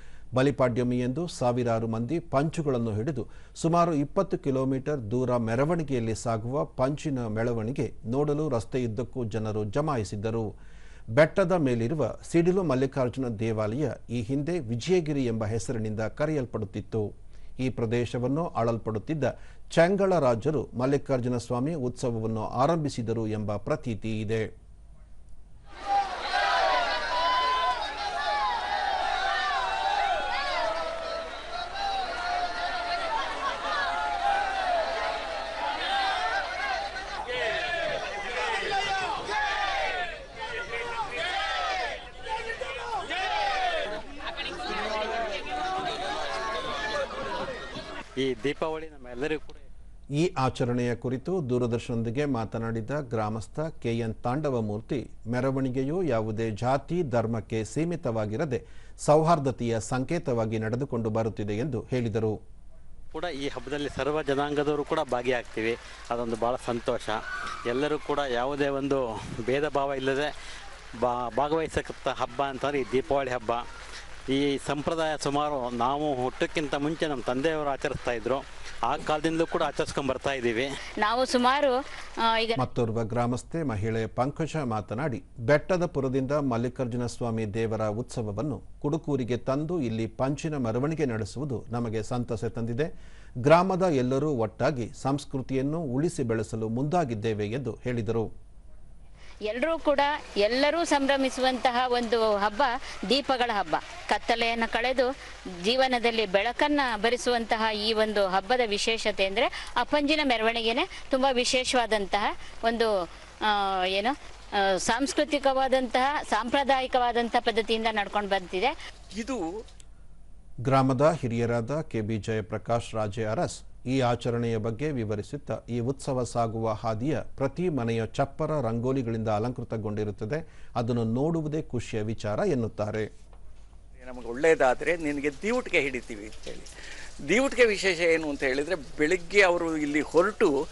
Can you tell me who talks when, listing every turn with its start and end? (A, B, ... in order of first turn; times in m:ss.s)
0:00.3-0:10.5 A
0:11.2-0:17.1 A
0:17.6-0:24.5 A
0:48.2-0:49.6 B
0:50.2-1:02.4 A
1:03.1-1:10.3 B
1:11.0-1:13.6 B
1:14.3-1:20.7 B
1:21.0-1:22.6 C
1:22.6-1:32.9 A
1:33.4-1:38.3 A
1:39.5-1:45.1 C
1:45.6-1:52.9 C
1:53.5-1:58.7 C
1:59.1-1:59.4 D
2:00.6-2:13.1 A
2:14.0-2:16.7 D
2:17.3-2:20.5 D